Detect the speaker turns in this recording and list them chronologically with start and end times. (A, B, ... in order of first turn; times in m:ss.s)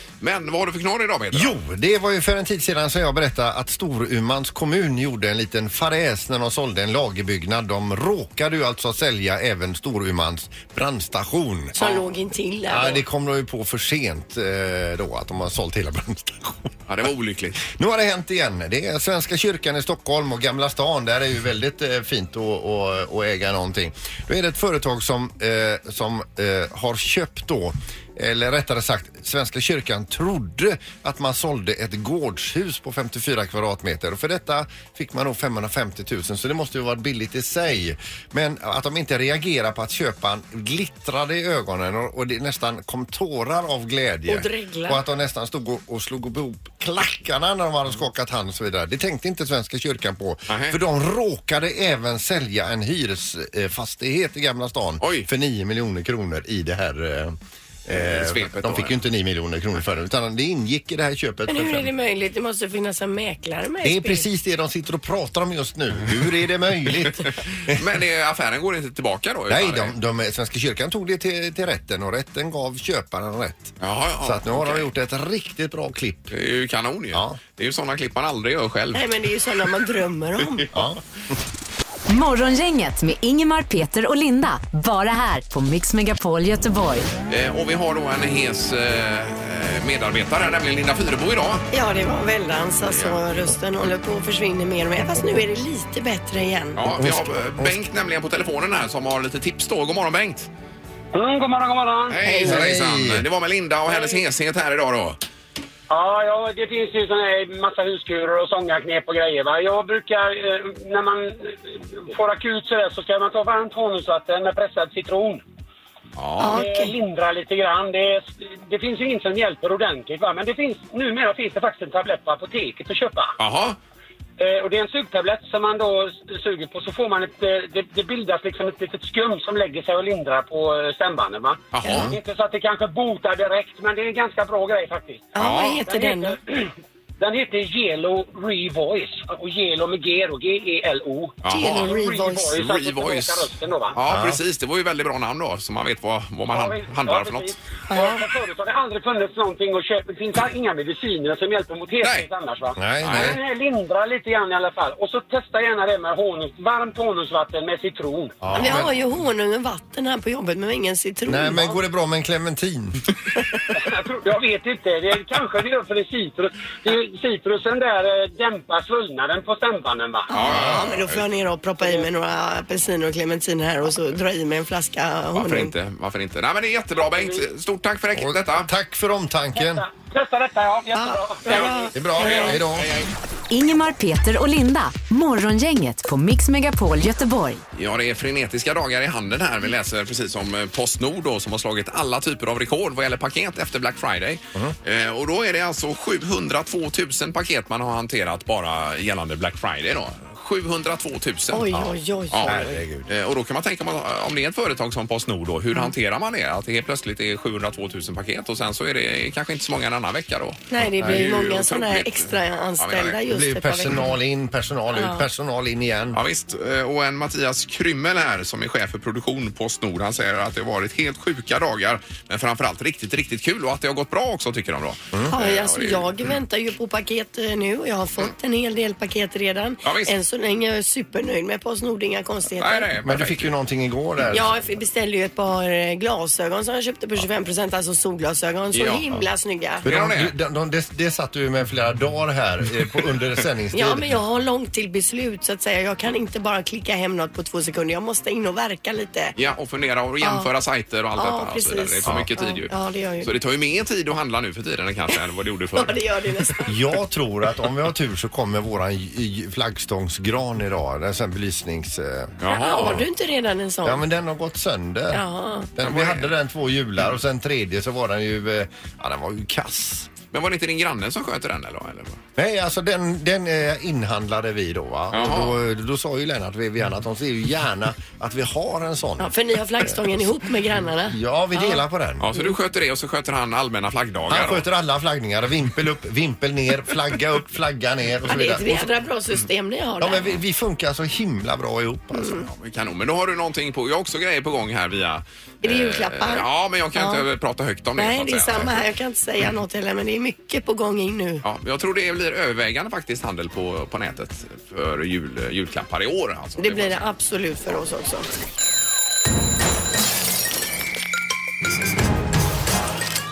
0:00.2-0:01.6 A
0:01.3-0:12.0 B
0:11.8-0:13.0 C
0:12.7-0:16.7 B
0:16.9-0:17.6 A
0:17.6-1:01.9 B
0:44.3-0:45.0 C
0:50.5-0:50.8 A
0:55.0-0:55.3 A
0:57.9-0:58.9 A
1:01.5-1:04.3 C
1:03.8-1:07.8 B
1:07.2-1:09.9 A
1:09.5-1:16.3 B
1:13.8-1:14.9 A
1:16.3-1:19.0 A
1:17.1-1:17.4 B
1:18.9-1:20.7 C
1:20.7-1:21.0 B
1:22.1-1:27.1 D
1:27.3-1:31.7 A
1:31.7-1:36.8 C
1:32.8-1:33.2 A
1:36.8-1:40.5 A
1:36.9-1:37.8 B
1:41.1-1:42.5 E
1:42.1-1:45.2 A
1:42.2-1:43.2 B
1:43.9-1:44.2 E
1:45.9-1:55.4 E
1:56.2-1:56.6 A
1:56.4-1:56.9 C
1:56.5-2:03.4 E
2:03.4-2:03.8 A
2:04.4-2:24.0 E
2:11.7-2:12.1 A
2:15.3-2:16.4 C
2:15.4-2:15.8 A
2:21.4-2:22.0 A
2:21.5-2:22.6 C
2:22.6-2:27.6 A
2:24.1-2:24.4 B
2:26.5-2:38.4 E
2:27.9-2:28.2 C
2:32.0-2:32.3 A
2:32.8-2:33.4 B
2:33.0-2:33.4 A
2:38.4-2:39.0 B
2:38.6-2:41.8 C
2:41.3-2:43.1 B
2:43.7-2:50.3 E
2:50.3-2:55.7 C
2:50.3-2:51.2 A
2:50.5-2:50.8 B
2:51.8-2:52.1 E
2:55.3-2:58.7 A
2:57.2-2:57.4 E
2:58.2-2:59.8 B
2:59.5-3:02.6 E
3:00.9-3:02.5 C
3:01.5-3:03.1 A
3:01.9-3:02.9 B
3:03.5-3:07.6 D
3:07.7-3:21.7 A
3:21.5-3:22.8 C
3:22.3-3:33.2 A
3:22.4-3:23.1 B
3:30.7-3:34.0 C
3:31.0-3:31.3 B
3:33.3-3:36.2 B
3:34.9-3:35.3 C
3:36.1-3:46.1 A
3:45.3-3:52.9 C
3:49.8-3:50.1 A
3:52.6-3:53.5 A
3:53.0-3:54.6 B
3:54.3-3:59.8 C
3:58.7-3:59.0 A
3:59.8-4:04.2 B
3:59.8-4:00.3 A
4:03.7-4:09.3 C
4:09.4-4:16.0 A
4:10.2-4:10.5 C
4:11.2-4:13.3 C
4:15.7-4:16.8 C
4:16.7-4:23.0 B
4:22.4-4:23.1 A
4:22.5-4:24.0 C
4:23.8-4:30.1 B
4:25.1-4:25.7 C
4:25.8-4:26.3 A
4:30.3-4:32.2 A
4:32.4-4:40.3 B
4:35.1-4:35.6 A
4:39.2-4:41.8 C
4:41.0-4:42.4 B
4:42.2-4:44.7 A
4:44.3-4:48.9 B
4:48.3-4:50.3 C
4:50.0-4:52.5 B
4:52.1-4:52.5 C
4:52.5-4:58.8 A
4:55.6-4:57.3 C
4:58.0-5:01.4 C
5:01.4-5:07.0 A
5:06.6-5:08.3 C